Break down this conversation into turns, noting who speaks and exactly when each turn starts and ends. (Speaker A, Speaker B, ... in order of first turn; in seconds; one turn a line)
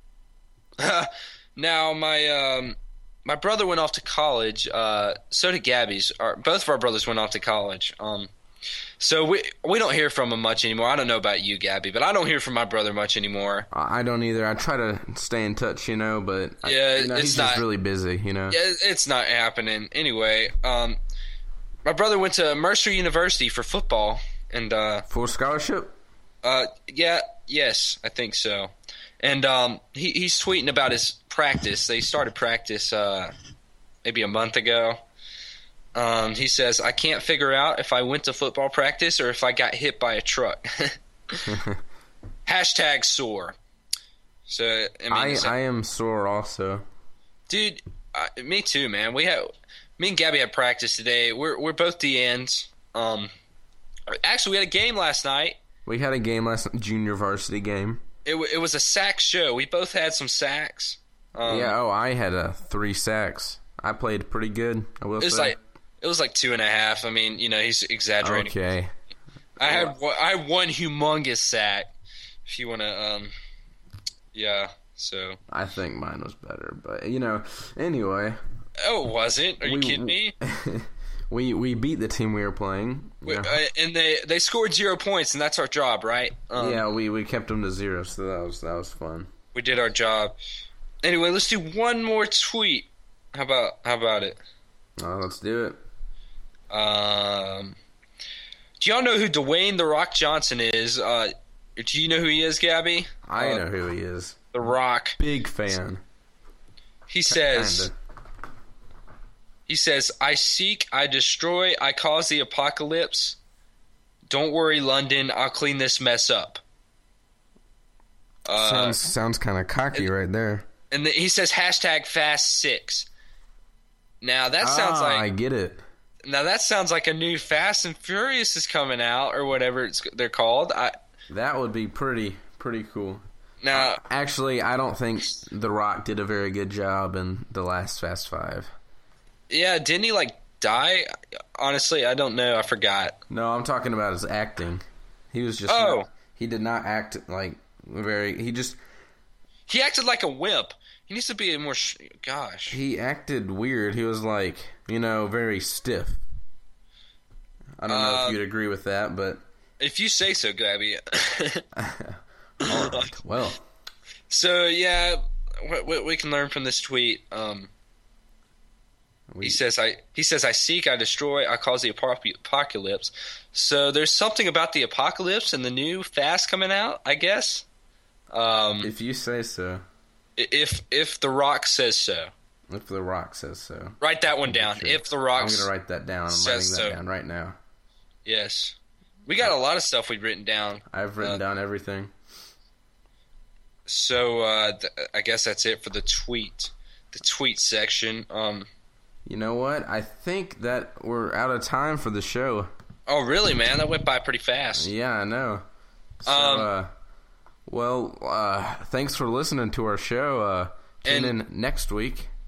Speaker A: 0.8-8.3
Speaker A: 9.0-13.7
Speaker B: 13.7-18.6
Speaker A: 16.6-17.6
Speaker A: 18.5-21.0
Speaker A: 21.9-25.1
Speaker B: 25.1-25.9
Speaker A: 26.4-33.3
Speaker A: 34.0-35.0
Speaker A: 36.0-41.5
Speaker B: 41.5-41.8
Speaker A: 42.5-43.6
Speaker A: 44.5-45.5
Speaker B: 45.1-46.9
Speaker A: 47.5-53.3
Speaker A: 54.1-55.6
Speaker B: 55.9-58.0
Speaker A: 58.2-61.8
Speaker B: 61.5-65.6
Speaker A: 65.2-68.5
Speaker B: 68.2-68.9
Speaker B: 69.6-70.0
Speaker A: 69.6-71.9
Speaker A: 72.5-73.3
Speaker A: 74.3-75.4
Speaker B: 75.5-78.4
Speaker A: 78.8-80.3
Speaker B: 79.6-83.6
Speaker A: 83.2-86.8
Speaker B: 86.5-89.3
Speaker A: 89.5-90.3
Speaker A: 91.0-94.4
Speaker B: 95.0-95.8
Speaker A: 96.7-97.8
Speaker A: 98.8-103.7
Speaker B: 103.3-104.4
Speaker A: 104.5-105.2
Speaker B: 105.2-106.0
Speaker A: 107.1-107.9
Speaker B: 107.3-107.9
Speaker A: 109.7-113.4
Speaker A: 114.3-116.6
Speaker A: 118.5-119.0
Speaker B: 118.6-120.7
Speaker A: 120.9-123.1
Speaker A: 124.2-125.3
Speaker B: 124.6-125.8
Speaker A: 126.2-130.9
Speaker B: 131.3-138.7
Speaker A: 133.6-134.0
Speaker A: 139.5-143.2
Speaker B: 143.3-148.8
Speaker A: 145.7-146.1
Speaker A: 149.7-152.8
Speaker B: 152.7-156.2
Speaker B: 157.8-159.4
Speaker A: 157.9-158.4
Speaker A: 159.8-161.6
Speaker B: 161.8-163.6
Speaker A: 162.6-163.1
Speaker A: 164.3-167.7
Speaker B: 169.3-169.6
Speaker A: 169.4-177.7
Speaker A: 178.3-178.9
Speaker B: 178.8-179.8
Speaker A: 180.4-182.3
Speaker B: 182.7-187.6
Speaker A: 184.0-185.7
Speaker A: 186.3-187.0
Speaker A: 188.3-191.4
Speaker B: 190.9-192.1
Speaker A: 193.9-198.7
Speaker B: 199.3-202.7
Speaker A: 203.1-204.9
Speaker B: 204.7-205.6
Speaker B: 206.2-206.9
Speaker A: 206.3-206.7
Speaker B: 207.7-212.3
Speaker A: 211.1-211.4